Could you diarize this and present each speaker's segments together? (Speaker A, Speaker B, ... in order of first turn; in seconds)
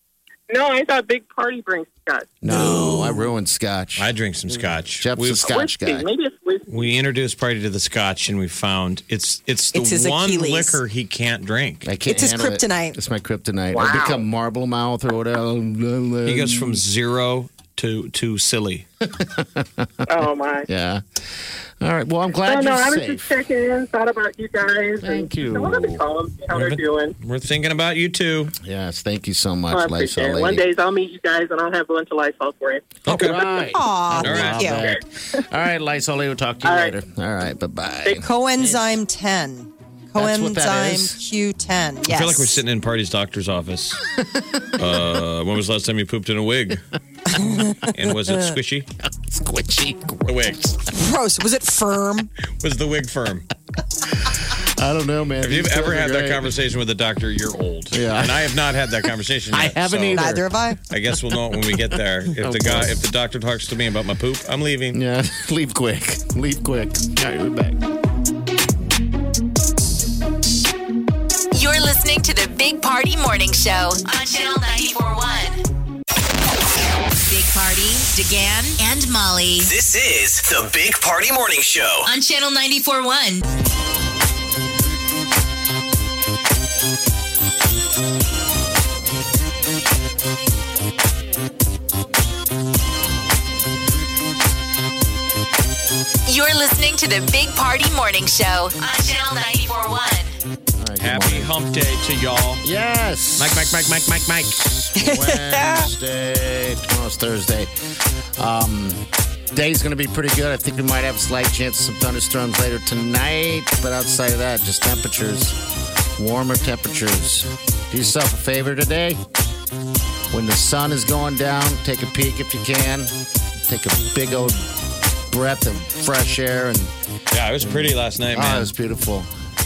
Speaker A: 0.5-2.3, 5.5-7.0, 13.7-14.2, 20.1-20.7, 22.5-27.1, 29.7-33.0, 36.6-37.0
Speaker B: 2.4-6.1, 11.8-16.8, 19.1-21.0, 21.8-23.3, 25.0-26.0, 28.6-30.6, 33.1-38.9, 40.1-41.2, 44.3-44.8, 49.0-50.5, 54.5-56.5, 57.9-58.6, 59.5-60.4, 62.4-63.0, 64.9-67.8, 100.8-101.5, 102.6-104.0, 104.5-107.7, 108.4-115.6, 116.2-119.2, 120.3-123.1, 123.7-124.7, 125.3-126.9, 127.6-129.3
Speaker C: 4.0-5.5, 6.7-11.9, 16.2-18.9, 26.5-28.6, 33.1-33.4, 34.2-34.8, 42.1-44.0, 44.8-46.8, 47.8-48.9, 50.3-50.8, 52.6-53.5, 55.4-60.3, 60.9-65.0, 101.0-102.6, 103.4-104.6, 127.3-128.7
Speaker D: 9.7-10.8, 12.1-13.0, 33.7-34.9, 38.1-42.6, 47.4-47.7, 50.9-52.3, 60.1-60.8, 105.0-105.9
Speaker E: 71.5-75.6, 77.3-79.7, 82.0-83.4, 96.3-100.3
Speaker F: 79.6-82.1